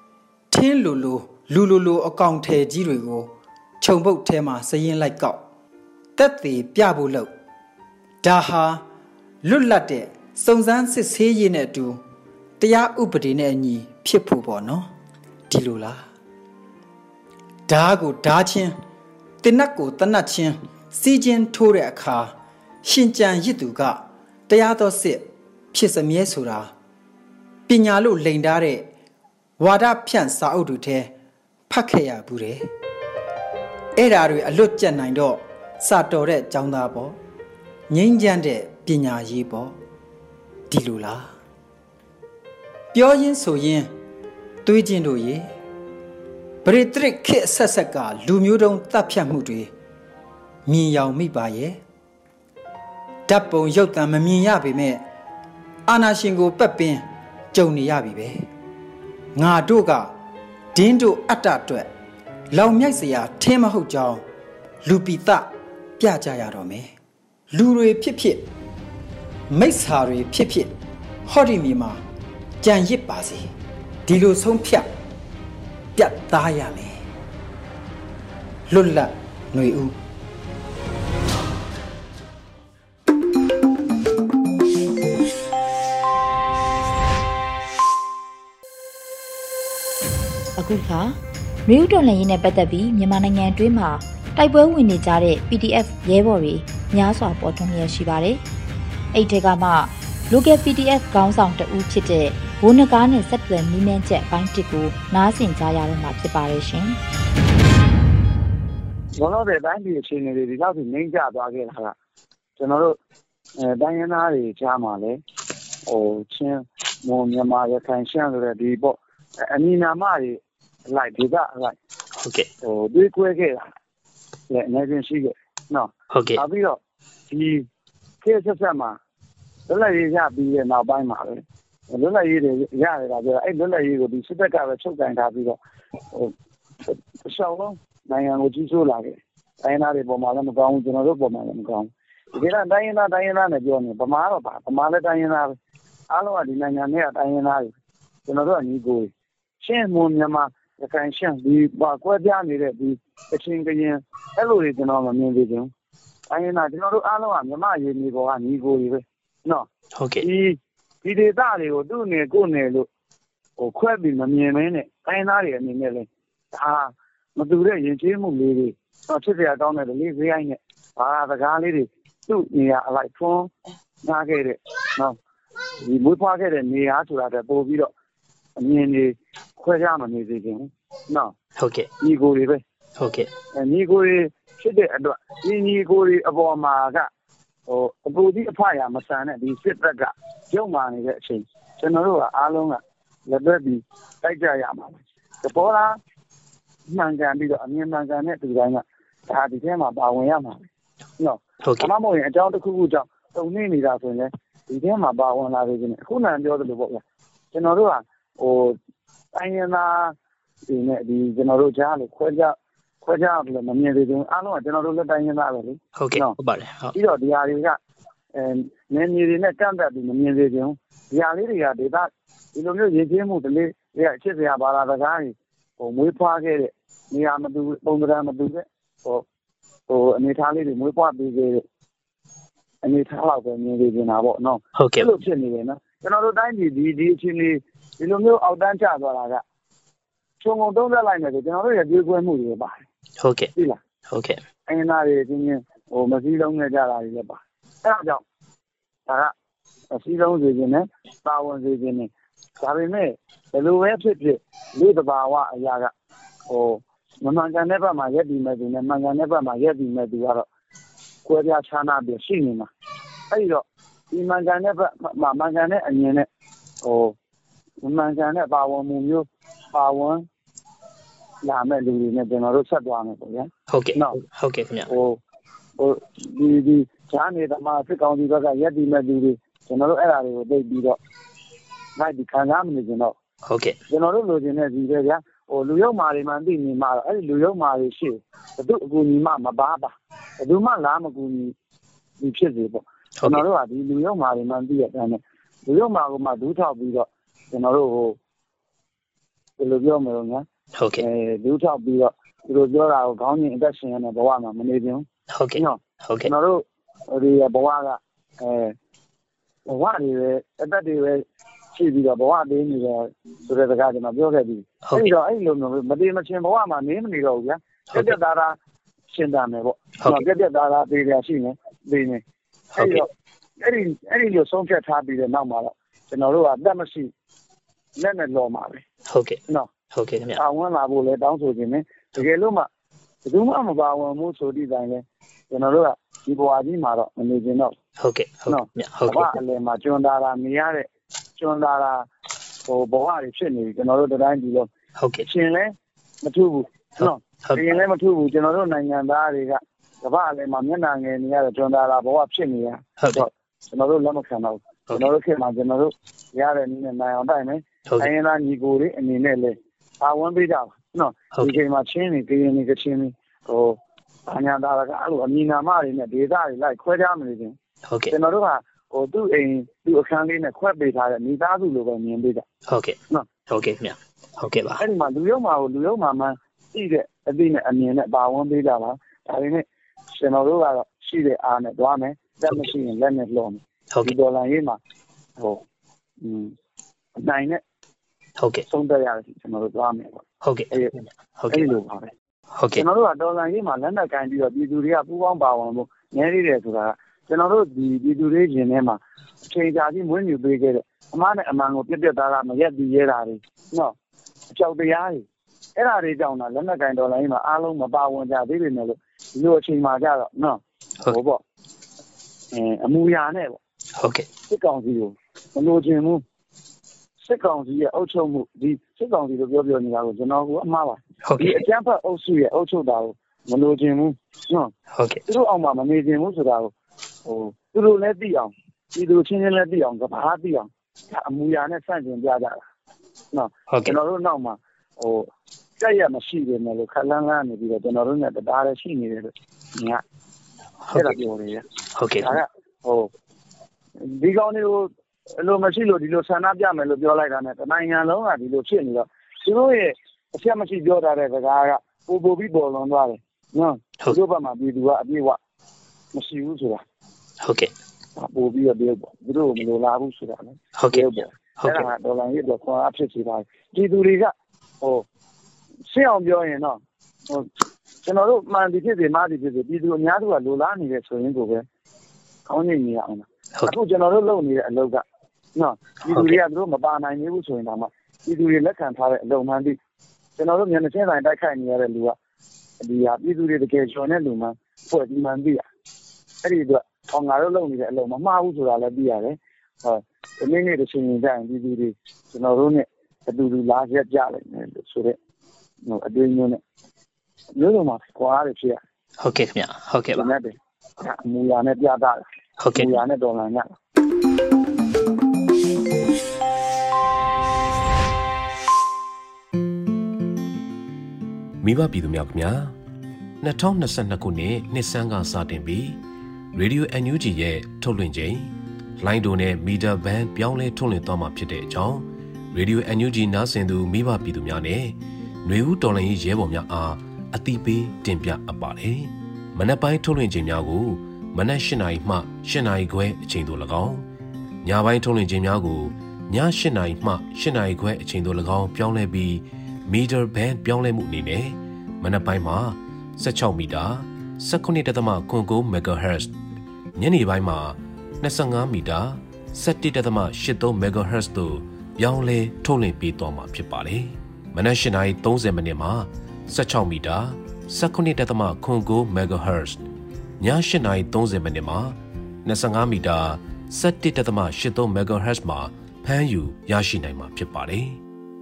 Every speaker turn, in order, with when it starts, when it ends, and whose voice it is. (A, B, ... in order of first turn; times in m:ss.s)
0:00.5-0:05.4 A
0:06.2-0:07.3 A
0:08.2-0:08.8 A
0:09.4-0:12.0 A
0:12.6-0:14.9 A
0:15.5-0:16.0 A
0:17.7-0:18.8 A
0:19.4-0:26.7 A
0:27.7-0:28.9 A
0:29.6-0:31.1 A
0:31.7-0:32.6 A
0:34.0-0:37.2 A
0:37.9-0:39.8 A
0:40.7-0:41.3 A
0:42.9-0:43.9 A
0:44.6-0:45.5 A
0:46.6-0:49.7 A
0:50.6-0:51.8 A
0:53.3-0:55.0 A
0:55.9-0:58.5 A
0:59.4-1:00.1 A
1:00.7-1:01.9 A
1:02.5-1:04.2 A
1:04.8-1:06.9 A
1:07.5-1:08.5 A
1:09.5-1:10.7 A
1:11.3-1:12.0 A
1:12.6-1:13.5 A
1:14.1-1:14.9 A
1:16.0-1:17.0 A
1:18.7-1:19.9 A
1:30.6-1:38.4 B
1:39.1-1:47.0 B
1:49.2-1:52.0 C
1:52.6-1:53.0 C
1:53.6-1:55.2 C
1:55.9-2:00.4 C
2:00.9-2:01.8 C
2:02.2-2:02.5 D
2:02.6-2:03.7 C
2:04.5-2:07.6 C
2:06.1-2:06.4 D
2:08.2-2:09.0 C
2:09.7-2:15.6 C
2:16.8-2:25.6 C
2:26.1-2:27.7 C
2:28.3-2:35.7 C
2:36.3-2:39.7 C
2:40.0-2:40.3 D
2:40.2-2:42.9 C
2:43.6-2:53.5 C
2:54.0-2:55.2 C
2:55.8-2:57.9 C
2:58.6-3:01.3 C
3:01.6-3:01.9 D
3:02.0-3:02.6 C
3:03.0-3:03.3 D
3:03.5-3:07.1 C
3:07.7-3:16.0 C
3:16.9-3:20.7 C
3:21.2-3:28.8 C
3:21.6-3:21.9 D
3:29.3-3:30.1 C
3:30.7-3:36.4 C
3:36.0-3:37.0 D
3:36.9-3:37.8 C
3:38.3-3:49.2 C
3:49.9-3:51.6 C
3:52.8-3:59.4 C
3:54.8-3:55.1 D
4:00.4-4:02.9 C
4:03.2-4:03.5 D
4:04.1-4:04.4 D
4:04.7-4:08.2 C
4:09.1-4:09.3 C
4:09.9-4:15.9 C
4:16.5-4:20.5 C
4:21.2-4:22.7 C
4:23.3-4:26.3 C
4:26.8-4:27.1 C
4:27.8-4:30.2 C
4:31.4-4:34.2 C
4:33.7-4:34.9 D
4:34.9-4:35.2 C
4:35.8-4:41.0 C
4:42.0-4:43.1 C
4:43.5-4:43.8 D
4:43.9-4:51.5 C
4:52.2-4:58.2 C
4:59.6-5:00.4 C
5:00.8-5:01.0 D
5:01.0-5:08.8 C
5:05.3-5:06.3 D
5:09.7-5:18.6 C
5:14.8-5:15.1 D
5:17.9-5:18.2 D
5:19.1-5:22.2 C
5:20.0-5:20.3 D
5:22.8-5:23.1 C
5:22.8-5:23.1 D
5:23.6-5:27.1 C
5:28.0-5:28.8 C
5:29.1-5:29.4 D
5:29.5-5:29.8 C
5:29.9-5:30.4 D
5:30.4-5:32.7 C
5:33.2-5:37.7 C
5:38.0-5:39.4 D
5:38.5-5:42.1 C
5:42.6-5:44.7 C
5:45.0-5:45.3 D
5:45.2-6:07.6 C
5:47.0-5:47.7 D
5:53.0-5:53.3 D
5:57.9-5:58.1 D
6:07.9-6:08.1 D
6:08.1-6:12.5 C
6:12.7-6:14.8 D
6:13.1-6:13.4 C
6:14.8-6:24.8 C
6:26.2-6:26.5 C
6:27.2-6:27.6 C
6:28.4-6:28.6 D
6:28.7-6:31.0 C
6:30.4-6:30.8 D
6:31.4-6:31.8 D
6:31.5-6:32.1 C
6:32.6-6:32.9 D
6:32.8-6:43.9 C
6:44.5-6:51.4 C
6:52.5-6:53.6 C
6:54.0-6:54.3 D
6:54.5-6:56.2 C
6:57.2-7:04.7 C
7:01.2-7:01.6 D
7:05.0-7:05.2 D
7:05.3-7:06.7 C
7:07.3-7:12.6 C
7:13.3-7:15.3 C
7:13.7-7:14.0 D
7:15.8-7:20.0 C
7:20.9-7:21.2 D
7:20.9-7:21.6 C
7:22.0-7:22.4 D
7:22.2-7:23.1 C
7:24.1-7:24.9 C
7:25.4-7:35.4 C
7:36.1-7:36.8 C
7:37.4-7:37.7 D
7:38.2-7:45.0 C
7:40.8-7:41.9 D
7:45.9-7:47.5 C
7:48.0-7:51.6 C
7:52.5-7:55.0 C
7:55.6-7:59.8 C
7:56.1-7:56.4 D
8:00.4-8:02.2 C
8:02.8-8:05.6 C
8:06.4-8:15.2 C
8:15.9-8:16.6 C
8:17.6-8:18.8 C
8:19.2-8:20.3 D
8:20.1-8:23.7 C
8:22.6-8:23.0 D
8:31.6-8:32.7 E
8:33.4-8:36.0 E
8:36.5-8:54.1 E
8:54.6-9:06.4 E
9:07.0-9:19.8 E
9:20.4-9:28.0 E